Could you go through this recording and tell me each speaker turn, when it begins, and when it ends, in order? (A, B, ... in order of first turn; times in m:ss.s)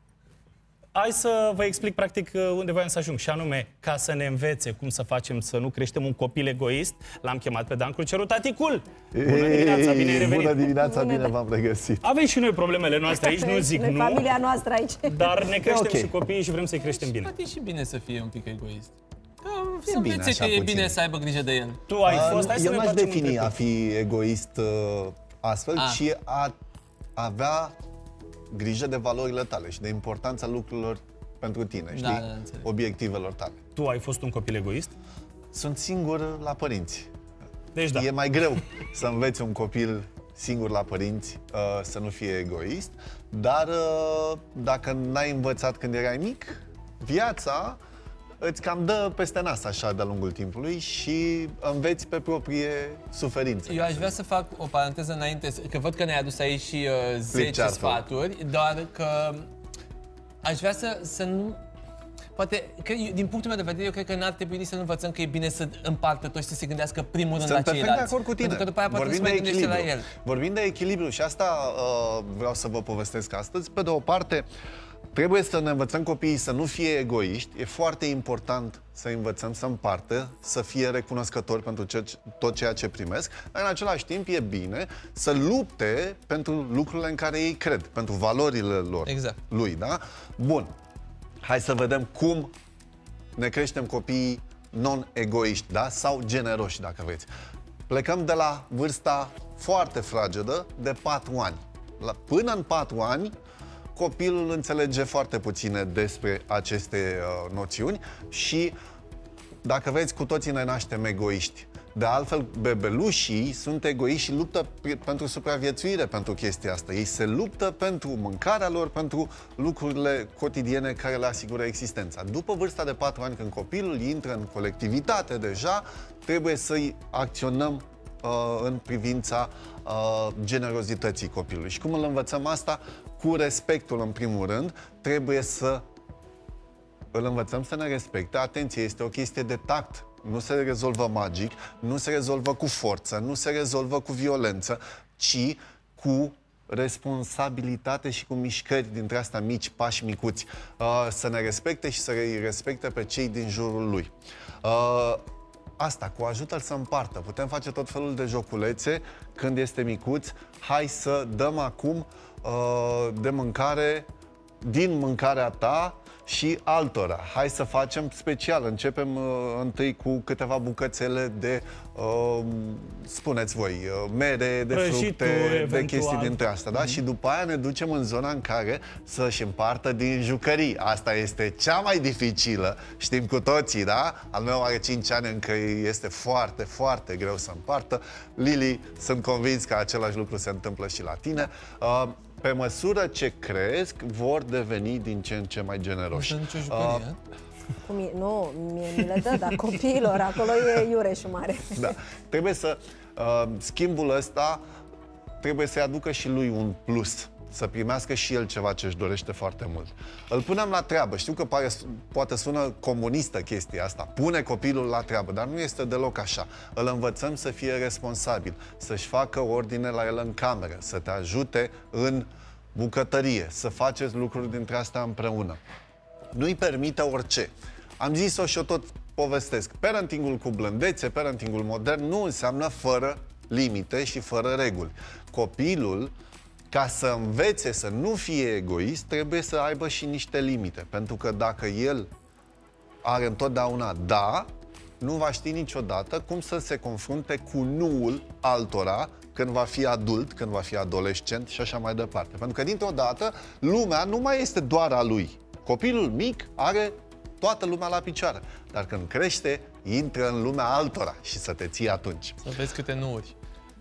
0:00.9-0:10.7 A
0:09.1-0:12.0 B
0:09.6-0:11.3 C
0:12.0-0:14.4 A
0:13.1-0:15.5 C
0:15.1-0:17.3 A
0:15.6-0:16.1 B
0:16.9-0:22.6 D
0:19.9-0:21.0 B
0:21.9-0:23.6 A
0:22.1-0:26.5 B
0:25.8-0:26.0 D
0:27.2-0:27.8 B
0:28.5-0:33.6 B
0:31.9-0:32.7 D
0:33.8-0:34.9 A
0:35.5-0:37.1 B
0:37.8-0:38.1 A
0:37.9-0:47.8 B
0:48.4-0:54.1 B
0:53.7-0:59.5 D
0:57.3-0:58.0 B
1:00.4-1:01.6 D
1:02.4-1:10.1 D
1:07.4-1:14.5 B
1:15.1-1:30.7 B
1:29.0-1:29.4 D
1:31.4-1:32.5 B
1:33.4-1:37.3 B
1:37.9-1:43.3 B
1:44.0-1:48.8 B
1:49.6-2:15.8 B
2:17.1-2:34.1 B
2:34.6-2:35.2 B
2:35.8-2:44.1 B
2:44.6-3:17.1 B
2:54.7-2:56.4 A
2:56.7-2:57.0 D
3:16.1-3:17.2 D
3:17.8-3:21.9 C
3:21.8-3:24.6 B
3:25.4-3:45.6 B
3:46.3-3:56.1 B
3:56.7-4:02.1 B
4:03.0-4:04.5 B
4:05.0-4:22.4 B
4:22.4-4:23.4 D